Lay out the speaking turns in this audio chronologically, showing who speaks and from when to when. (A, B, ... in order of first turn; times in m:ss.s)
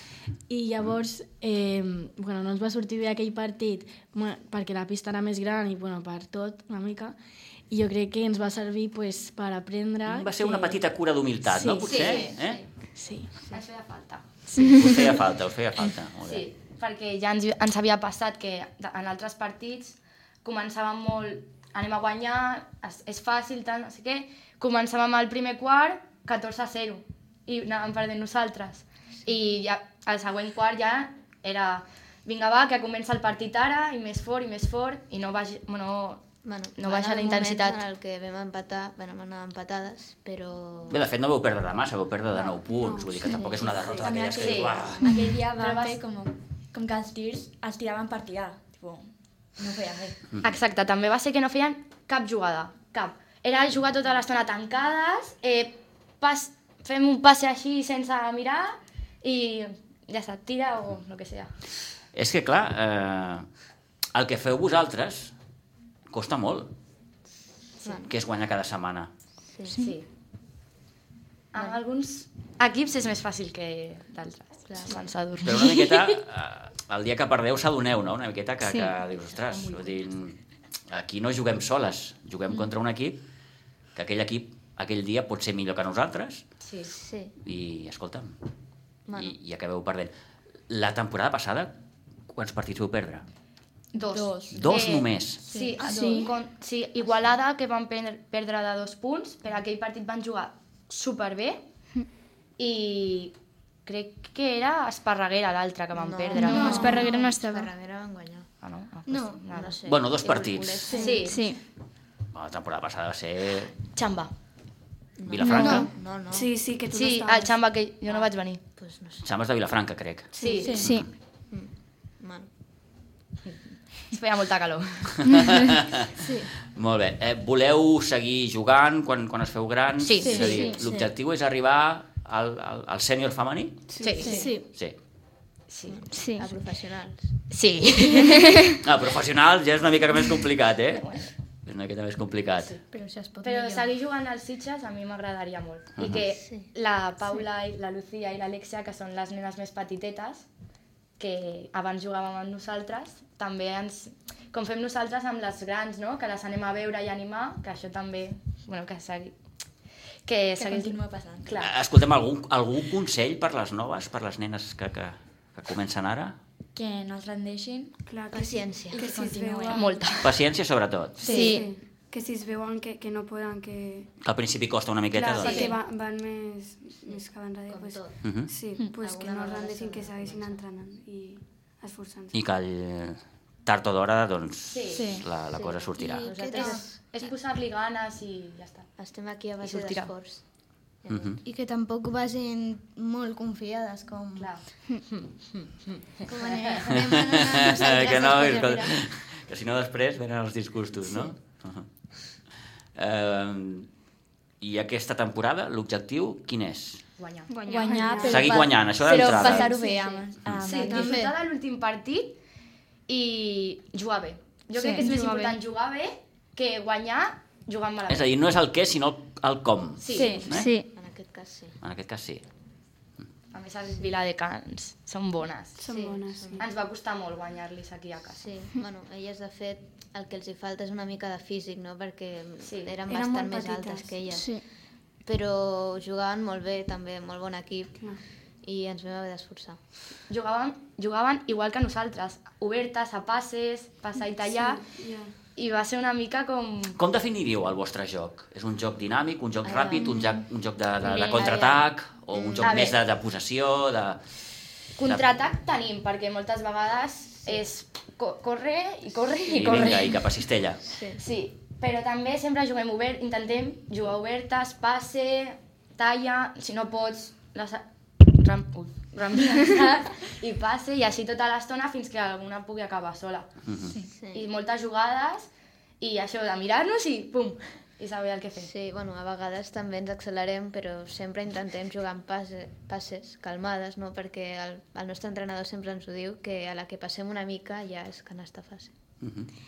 0:00.5-0:07.2 A
0:07.7-0:10.8 A
0:10.0-0:12.6 B
0:11.4-0:12.2 A
0:11.9-0:12.6 C
0:12.1-0:12.6 D
0:13.0-0:13.3 A
0:13.5-0:14.2 C
0:14.6-0:16.4 B
0:16.2-0:36.2 C
0:36.4-0:41.0 D
0:36.8-0:37.8 C
0:40.9-0:45.1 B
0:42.7-0:44.0 E
0:43.9-0:50.2 F
0:44.4-0:46.0 C
0:50.4-1:01.5 C
1:02.1-1:03.4 B
1:04.1-1:05.3 B
1:06.1-1:06.7 B
1:07.8-1:08.1 D
1:08.0-1:09.1 B
1:09.5-1:09.8 D
1:09.8-1:10.0 C
1:11.5-1:16.1 C
1:14.7-1:15.0 D
1:15.4-1:20.4 B
1:19.5-1:20.0 C
1:20.9-1:23.2 B
1:23.9-1:26.4 B
1:26.6-1:26.9 C
1:26.9-1:27.3 D
1:27.4-1:28.3 B
1:29.1-1:29.3 D
1:29.1-1:30.1 B
1:30.7-1:31.7 B
1:32.3-1:33.2 B
1:33.9-1:41.6 C
1:33.9-1:34.7 F
1:34.5-1:35.4 B
1:35.4-1:36.3 F
1:42.6-1:43.3 C
1:43.8-1:47.0 C
1:45.9-1:48.5 D
1:46.4-1:47.7 G
1:46.4-1:47.2 H
1:48.6-1:49.8 C
1:49.1-1:49.4 H
1:49.5-1:51.3 D
1:49.8-1:51.0 B
1:50.9-1:51.4 C
1:50.9-1:51.2 E
1:51.0-1:51.6 G
1:52.3-1:53.7 B
1:53.9-1:54.3 C
1:55.2-1:56.5 D
1:55.3-1:55.9 B
1:55.4-1:55.9 H
1:55.5-1:55.8 E
1:56.3-1:57.6 E
1:56.9-1:58.6 C
1:58.1-1:59.2 D
1:59.2-2:01.1 B
2:00.3-2:00.8 C
2:00.6-2:00.9 F
2:00.6-2:01.1 G
2:01.5-2:02.5 D
2:04.1-2:05.4 C
2:05.2-2:06.1 B
2:06.2-2:06.5 H
2:06.7-2:13.9 B
2:10.0-2:10.7 C
2:10.2-2:10.7 F
2:10.3-2:10.8 G
2:10.4-2:11.0 A
2:13.9-2:14.5 E
2:14.0-2:14.5 C
2:14.2-2:14.5 F
2:14.2-2:14.6 A
2:15.7-2:16.0 C
2:15.9-2:17.3 D
2:16.1-2:16.5 G
2:17.5-2:18.5 C
2:18.2-2:18.8 G
2:18.8-2:21.0 B
2:20.9-2:21.3 C
2:21.6-2:22.8 B
2:22.9-2:23.9 F
2:23.4-2:30.5 C
2:26.0-2:26.2 B
2:31.2-2:39.3 C
2:40.2-2:41.7 C
2:40.6-2:41.5 F
2:41.6-2:46.4 B
2:46.7-2:47.9 F
2:48.0-2:50.0 E
2:48.3-2:49.1 D
2:48.9-2:49.8 F
2:49.7-2:50.3 C
2:50.2-2:51.4 B
2:51.2-2:51.6 F
2:51.2-2:54.1 E
2:51.2-2:51.7 G
2:54.2-2:55.8 B
2:55.1-3:02.4 E
2:55.4-2:55.7 C
2:57.0-2:58.1 D
2:58.2-2:58.5 B
2:59.0-3:00.6 D
3:02.3-3:06.3 B
3:04.7-3:05.1 C
3:04.9-3:05.3 F
3:05.5-3:07.0 D
3:06.0-3:06.8 H
3:06.5-3:08.9 C
3:09.0-3:10.4 D
3:09.6-3:10.1 C
3:11.0-3:11.4 D
3:11.1-3:11.4 B
3:11.4-3:14.5 H
3:14.4-3:17.0 C
3:16.2-3:18.9 H
3:16.9-3:21.8 B
3:23.0-3:23.9 B
3:24.6-3:27.0 B
3:27.2-3:27.5 C
3:27.5-3:28.2 G
3:27.6-3:31.2 F
3:27.8-3:28.6 E
3:28.2-3:29.7 B
3:29.0-3:32.4 C
3:30.7-3:31.3 H
3:33.1-3:38.3 C
3:34.8-3:35.5 F
3:35.0-3:35.5 G
3:38.1-3:40.7 B
3:40.0-3:40.4 C
3:40.1-3:40.6 F
3:40.5-3:40.9 G
3:40.9-3:41.8 D
3:41.8-3:42.4 B
3:43.5-3:45.8 C
3:45.8-3:46.6 E
3:45.9-3:46.6 D
3:46.6-3:48.4 C
3:48.4-3:54.6 D
3:52.6-3:52.9 C
3:53.1-3:54.2 E
3:54.3-3:54.6 G
3:55.2-3:58.1 D
3:58.6-3:59.8 D
4:00.3-4:04.8 C
4:04.4-4:05.3 E
4:05.5-4:07.0 C
4:07.0-4:14.2 B
4:09.6-4:10.1 D
4:11.0-4:11.7 C
4:11.3-4:11.8 D
4:12.3-4:12.9 D
4:12.6-4:13.0 C
4:15.0-4:20.2 C
4:15.0-4:15.4 B
4:19.5-4:20.8 B
4:20.9-4:21.2 D
4:21.2-4:33.5 C
4:33.7-4:34.0 B
4:33.8-4:34.1 F
4:34.2-4:34.5 D
4:34.3-4:35.5 C
4:36.0-4:38.7 C
4:38.6-4:48.9 D
4:49.2-4:49.5 B